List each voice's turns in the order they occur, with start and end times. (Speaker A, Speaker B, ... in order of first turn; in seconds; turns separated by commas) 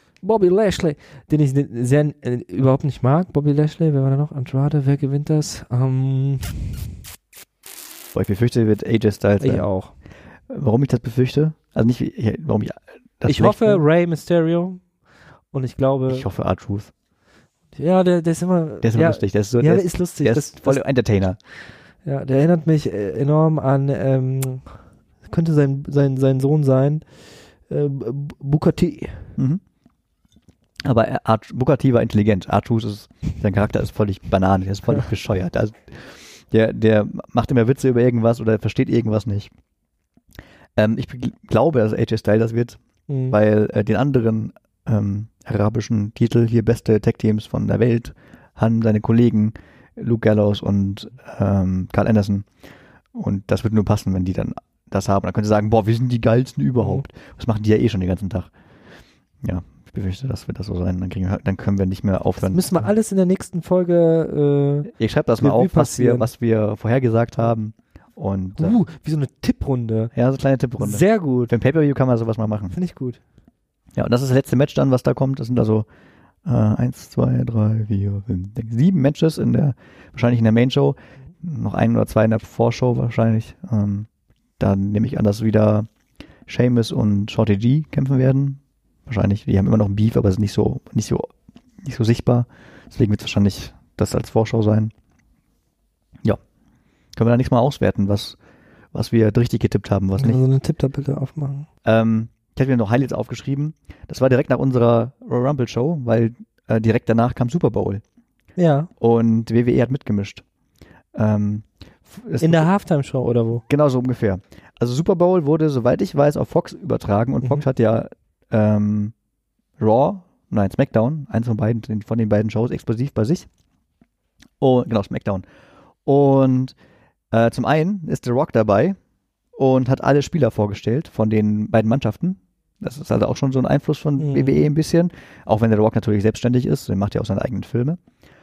Speaker A: 0.2-6.9, Speaker B: 8.1-9.7, Speaker A: 9.4-9.9, Speaker B: 10.5-13.8, Speaker A: 13.2-14.9, Speaker A: 15.5-16.2, Speaker B: 16.1-16.9, Speaker A: 17.7-20.8, Speaker B: 18.8-21.4, Speaker A: 22.0-27.1, Speaker A: 27.6-29.3, Speaker B: 30.8-39.5, Speaker B: 40.8-52.5, Speaker A: 43.1-43.4, Speaker B: 53.1-58.5, Speaker B: 59.4-62.9, Speaker A: 62.4-66.3, Speaker B: 64.9-68.8, Speaker A: 68.6-70.1, Speaker B: 70.1-72.8, Speaker A: 70.8-71.5, Speaker A: 72.7-73.2, Speaker B: 74.0-75.8, Speaker B: 76.4-84.1, Speaker B: 84.6-85.9, Speaker B: 86.5-91.3, Speaker B: 91.8-94.9, Speaker B: 97.2-98.4, Speaker B: 98.9-100.4, Speaker A: 100.2-101.7, Speaker B: 101.8-108.0, Speaker A: 108.5-108.9, Speaker B: 109.0-110.4, Speaker B: 111.1-112.7, Speaker A: 112.4-113.6, Speaker B: 113.7-119.1, Speaker B: 119.8-123.5, Speaker B: 124.6-125.4, Speaker B: 126.0-126.7, Speaker B: 127.3-129.0, Speaker B: 129.6-138.0, Speaker A: 134.2-134.7